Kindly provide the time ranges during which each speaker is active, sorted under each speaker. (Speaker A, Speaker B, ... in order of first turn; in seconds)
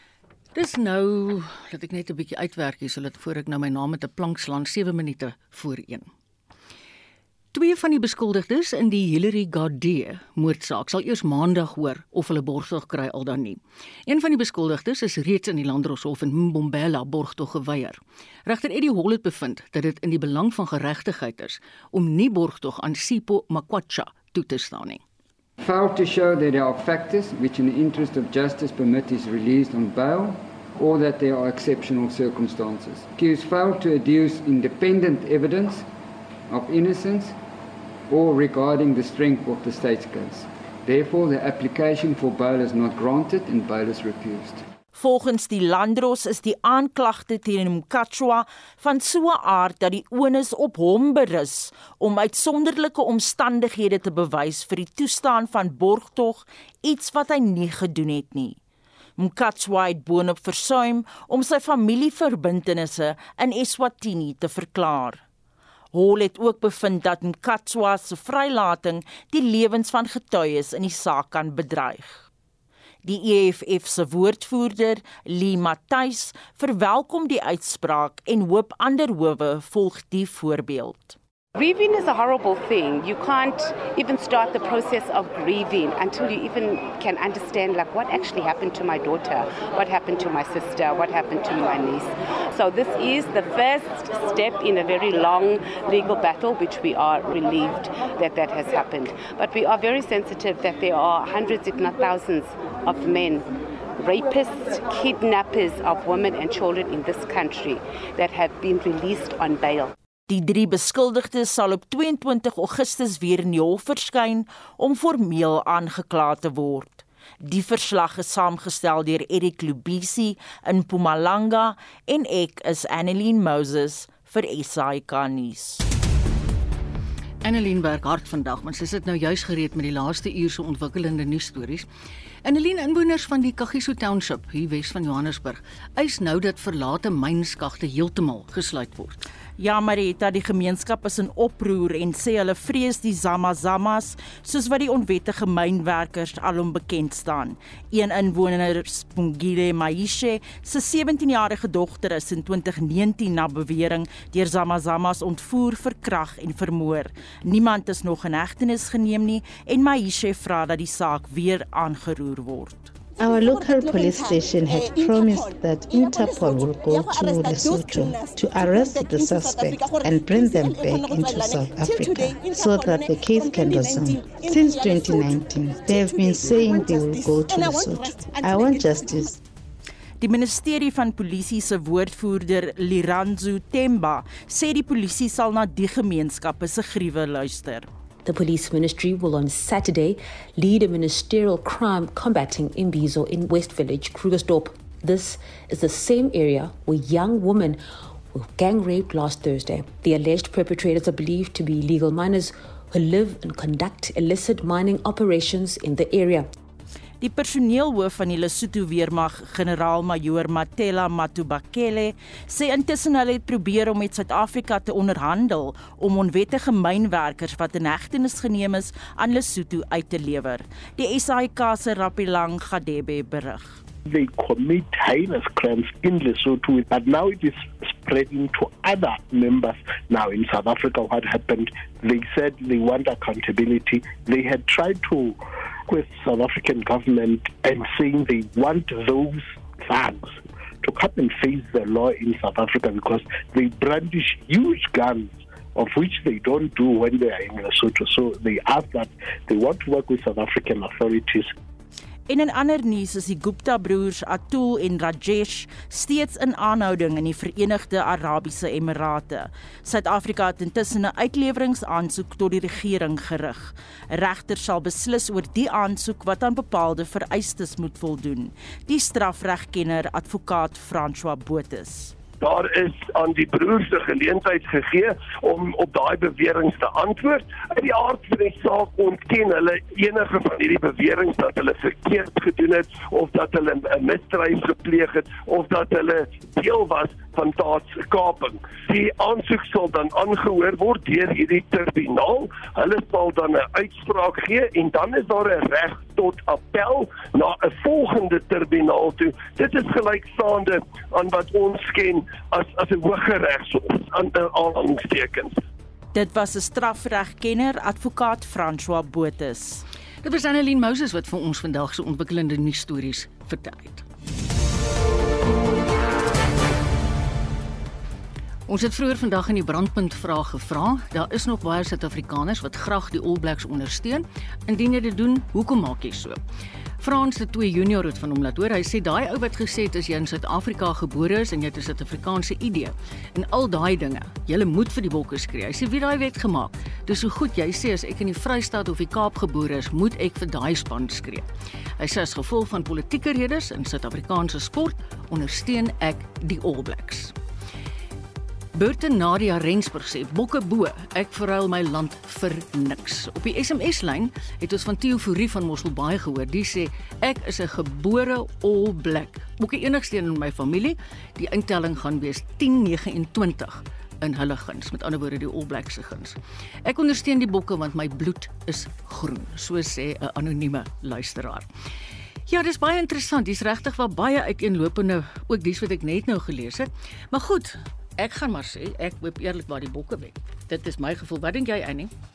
Speaker A: 0.5-6.1, 7.5-25.0, 127.4-131.8, 132.4-139.2, 310.2-314.0, 318.7-326.4, 327.0-341.4, 342.0-347.3, 348.7-371.7, 372.5-382.1
Speaker B: 25.6-35.9, 36.5-37.4, 38.1-44.6
Speaker C: 44.9-58.6, 59.2-65.2, 65.9-72.2, 73.0-81.2, 110.3-125.8, 139.6-162.9, 180.2-187.9, 207.2-223.8, 252.3-272.1, 306.1-309.8
Speaker D: 81.5-109.9
Speaker E: 163.2-179.4
Speaker F: 188.2-197.8, 198.3-206.5
Speaker G: 224.0-251.5
Speaker H: 272.4-305.6